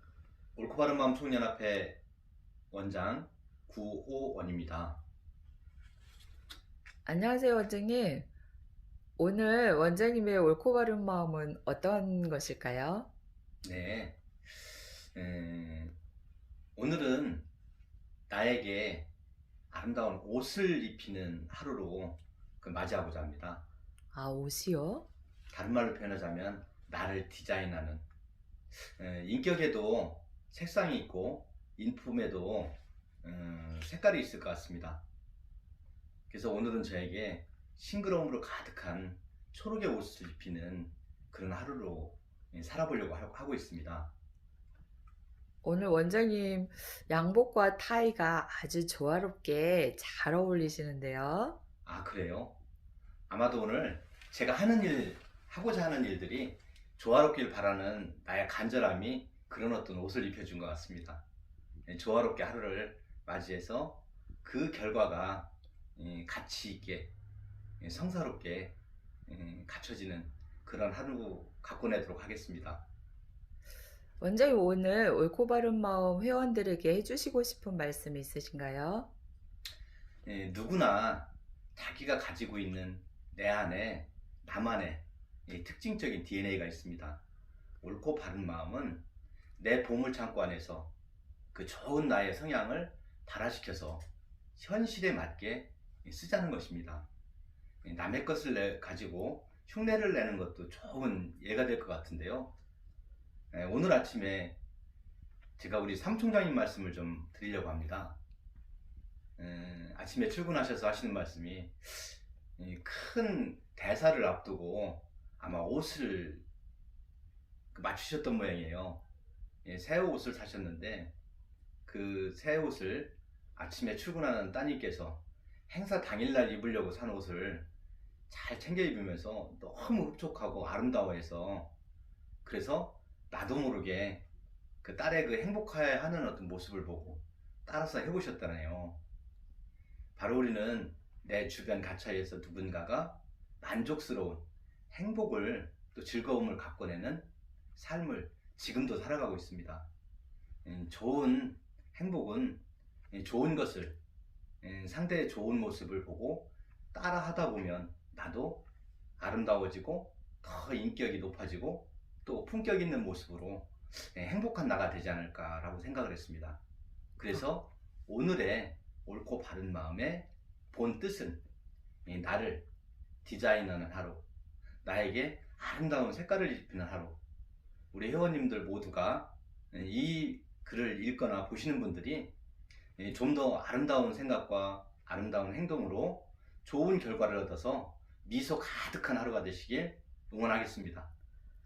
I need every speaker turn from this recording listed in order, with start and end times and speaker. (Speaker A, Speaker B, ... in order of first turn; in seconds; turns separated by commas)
Speaker A: 0.6-2.0, Speaker A: 2.7-5.0, Speaker B: 7.0-8.3, Speaker B: 9.2-13.1, Speaker A: 13.6-15.9, Speaker A: 16.8-17.4, Speaker A: 18.3-19.1, Speaker A: 19.7-23.6, Speaker B: 24.1-25.1, Speaker A: 25.5-28.0, Speaker A: 28.7-35.0, Speaker A: 36.3-44.1, Speaker B: 45.6-51.6, Speaker A: 51.8-52.5, Speaker A: 53.3-61.2, Speaker A: 61.9-67.1, Speaker A: 67.8-68.7, Speaker A: 69.3-72.8, Speaker B: 74.2-79.1, Speaker A: 80.2-87.2, Speaker A: 87.8-89.0, Speaker A: 89.6-90.9, Speaker A: 91.5-94.0, Speaker A: 94.5-97.1, Speaker A: 97.8-102.5, Speaker A: 103.5-104.5, Speaker A: 105.6-108.2, Speaker A: 109.4-116.4, Speaker A: 117.7-119.0, Speaker A: 119.6-121.1, Speaker A: 121.8-127.7, Speaker A: 128.3-131.7, Speaker A: 132.4-134.2, Speaker A: 134.8-139.0, Speaker A: 140.2-149.9, Speaker A: 150.6-154.0, Speaker A: 154.6-158.6, Speaker A: 159.2-166.6, Speaker A: 167.2-171.4, Speaker A: 172.0-172.6, Speaker A: 173.2-174.2, Speaker A: 174.8-177.2, Speaker A: 177.9-182.3, Speaker A: 183.0-191.1